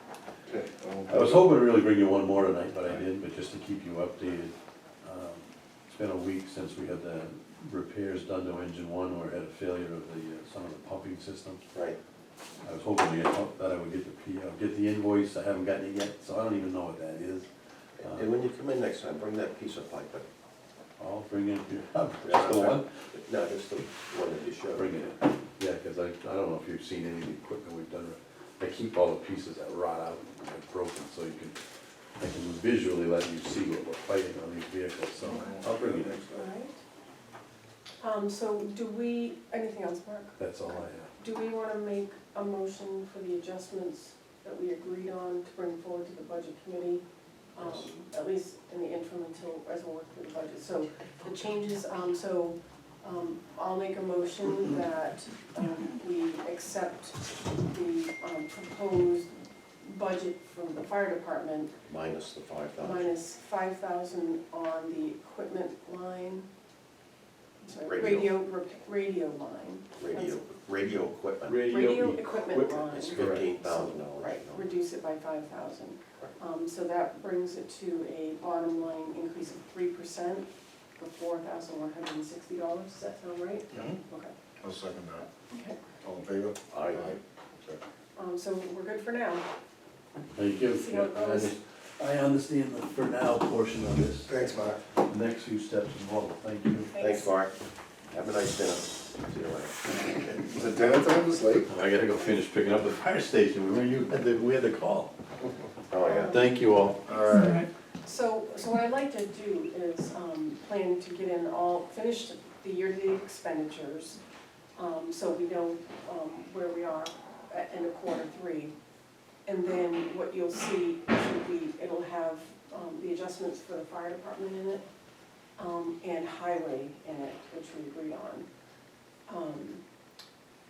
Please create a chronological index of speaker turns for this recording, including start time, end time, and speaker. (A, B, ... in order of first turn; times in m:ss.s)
0:00.5-0:01.5 A
0:01.1-0:11.6 B
0:12.6-0:17.5 B
0:18.0-0:20.3 C
0:21.0-0:22.9 B
0:22.2-0:25.0 C
0:24.7-0:31.6 B
0:32.2-0:36.2 B
0:35.3-0:36.5 A
0:36.3-0:36.8 D
0:38.0-0:40.4 D
0:40.4-0:41.1 B
0:41.2-0:47.0 D
0:47.5-1:01.7 D
1:01.8-1:03.1 C
1:02.8-1:06.4 D
1:07.6-1:10.4 D
1:07.7-1:08.3 C
1:10.0-1:11.9 C
1:11.4-1:13.5 B
1:11.6-1:20.5 D
1:12.9-1:14.7 C
1:21.0-1:24.3 D
1:23.7-1:24.0 A
1:24.6-1:25.3 A
1:25.5-1:25.8 D
1:26.0-1:27.8 A
1:26.7-1:27.2 C
1:28.2-1:29.4 D
1:30.3-1:34.4 B
1:30.7-1:31.6 D
1:34.2-1:34.8 A
1:35.0-1:37.0 B
1:36.9-1:37.3 D
1:37.0-1:37.5 C
1:38.1-1:40.4 C
1:40.4-1:41.7 A
1:41.7-1:45.1 B
1:45.9-1:46.4 C
1:46.0-1:46.5 D
1:46.3-1:47.3 B
1:47.0-1:47.6 A
1:47.2-1:54.2 D
1:54.7-1:58.7 D
1:59.4-2:04.8 D
2:05.6-2:08.5 D
2:09.3-2:09.8 D